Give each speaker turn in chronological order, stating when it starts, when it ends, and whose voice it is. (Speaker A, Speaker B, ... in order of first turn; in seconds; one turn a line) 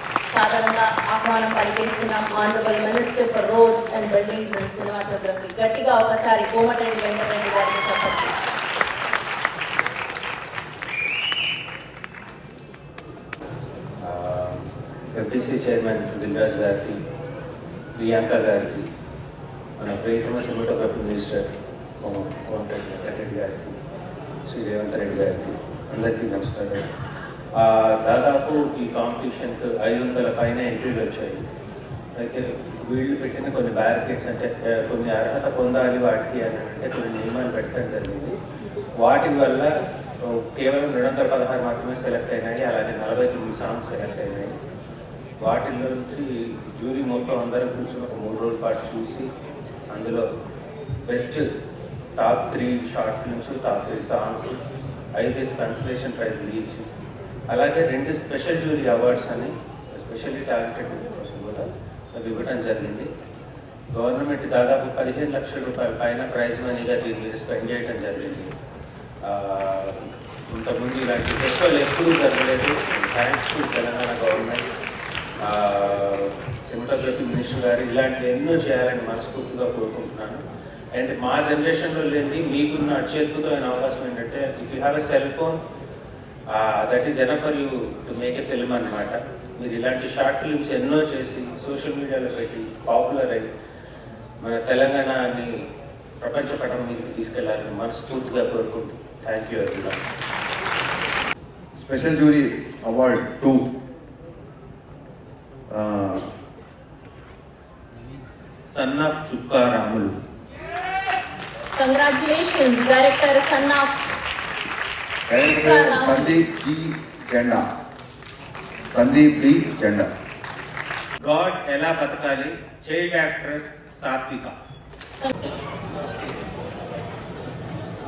Speaker A: 0.3-8.3
Speaker B: 14.0-14.6
Speaker B: 15.1-17.0
Speaker B: 18.0-18.9
Speaker B: 19.8-21.5
Speaker B: 22.0-23.8
Speaker B: 24.5-26.9
Speaker B: 27.6-31.4
Speaker B: 32.2-38.3
Speaker B: 39.0-39.7
Speaker B: 40.2-44.5
Speaker B: 45.4-49.3
Speaker B: 49.9-50.3
Speaker B: 51.1-51.5
Speaker B: 52.2-54.6
Speaker B: 55.2-56.9
Speaker B: 57.5-63.1
Speaker B: 63.9-68.5
Speaker B: 69.3-70.0
Speaker B: 70.5-74.7
Speaker B: 75.4-80.4
Speaker B: 81.0-85.6
Speaker B: 86.5-93.5
Speaker B: 94.4-95.5
Speaker B: 96.2-100.0
Speaker C: 101.8-103.6
Speaker C: 105.7-106.2
Speaker B: 108.7-110.1
Speaker A: 111.8-114.0
Speaker C: 115.3-117.6
Speaker A: 115.4-116.3
Speaker C: 118.9-120.1
Speaker B: 121.2-124.5